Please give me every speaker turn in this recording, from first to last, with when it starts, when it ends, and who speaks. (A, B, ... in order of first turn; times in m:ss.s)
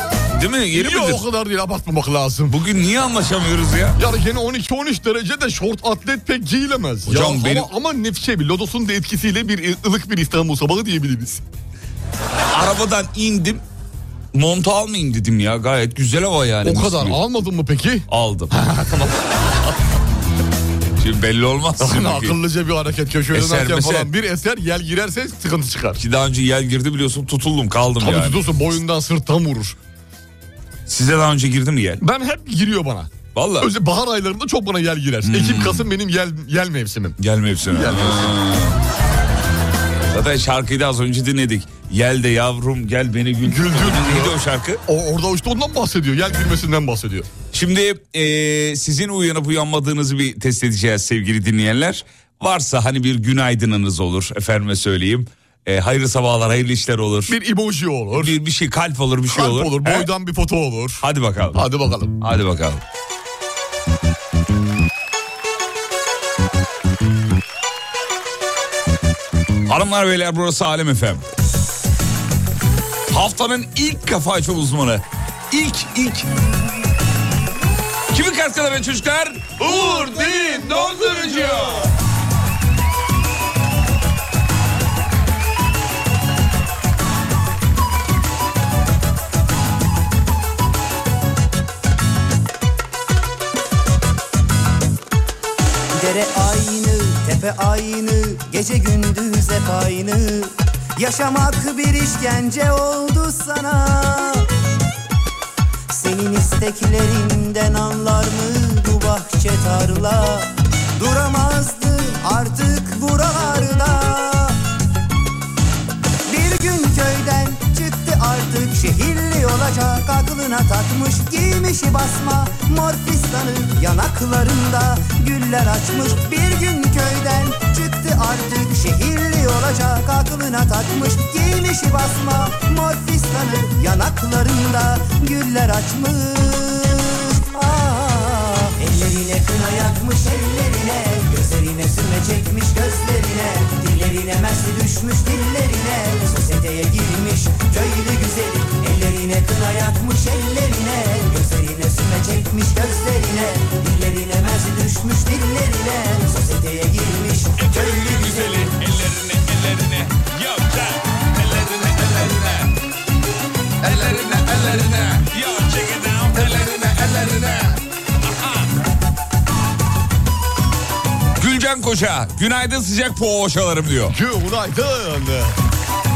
0:00.3-0:01.2 A
0:00.7-0:02.6 B
0:02.5-0:04.0 A
0:04.0-0:11.4 B
0:07.1-0:07.7 A
0:12.5-0:13.6 A
0:14.3-0:17.2 A
0:16.6-0:19.3 B
0:18.1-0:18.6 A
0:21.0-0:22.4 A
0:21.8-0:26.0 B
0:23.3-0:24.1 A
0:26.0-0:28.4 A
0:28.0-0:29.8 B
0:30.9-0:32.0 A
0:32.0-0:37.2 B
0:33.4-0:33.7 A
0:35.2-0:35.9 A
0:37.2-0:38.8 A
0:37.7-0:38.4 B
0:40.1-0:44.8 A
0:43.4-0:47.3 B
0:47.5-0:57.4 A
0:57.3-0:58.4 B
0:58.1-1:00.1 A
0:59.3-1:02.1 B
1:01.0-1:01.6 A
1:02.2-1:02.8 A
1:09.7-1:11.2 A
1:13.1-1:16.3 A
1:18.1-1:21.9 A
1:19.7-1:21.7 B
1:35.9-1:44.5 C
1:45.9-1:54.6 C
1:56.3-2:38.7 C
2:37.6-2:42.8 A
2:43.8-2:48.7 A
2:51.4-2:54.2 A
2:54.1-2:55.6 B